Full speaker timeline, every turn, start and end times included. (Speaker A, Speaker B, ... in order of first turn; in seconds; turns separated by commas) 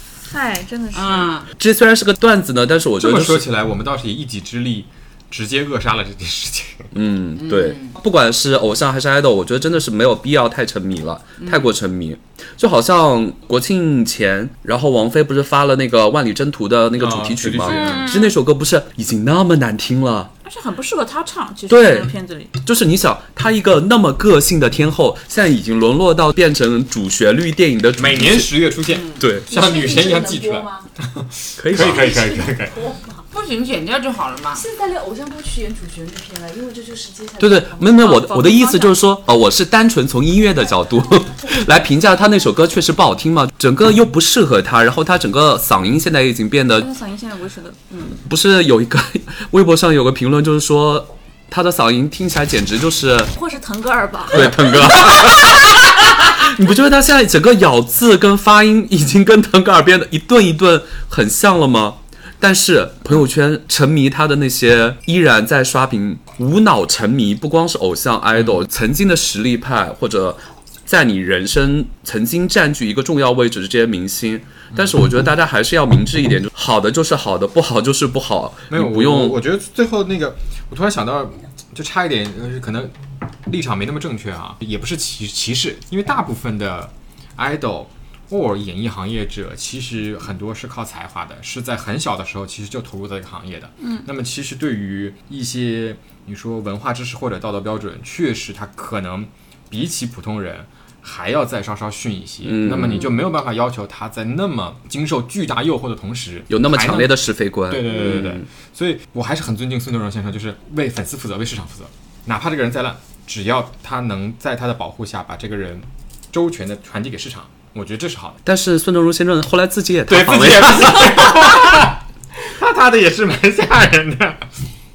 Speaker A: 0.3-1.3, Speaker B: 0.9-1.5, Speaker C: 1.6-3.5, Speaker D: 3.0-6.9, Speaker C: 6.9-20.3, Speaker B: 7.3-7.9, Speaker B: 11.4-11.7, Speaker D: 17.0-18.1, Speaker A: 17.7-18.4, Speaker A: 20.4-22.5, Speaker C: 21.7-28.5, Speaker D: 28.0-32.8, Speaker B: 28.9-29.2, Speaker C: 29.2-29.4, Speaker E: 29.5-30.9, Speaker C: 31.6-32.2, Speaker E: 31.7-33.2, Speaker B: 33.3-34.6, Speaker E: 34.5-38.0, Speaker C: 37.4-46.9, Speaker A: 37.9-39.0, Speaker E: 41.2-41.7, Speaker A: 46.8-48.2, Speaker C: 48.1-53.3, Speaker A: 53.3-55.8, Speaker C: 54.3-79.4, Speaker D: 78.7-82.9, Speaker D: 83.5-118.4, Speaker A: 93.8-94.0, Speaker C: 102.4-103.1, Speaker C: 106.5-108.4, Speaker C: 118.4-121.8, Speaker D: 120.1-124.5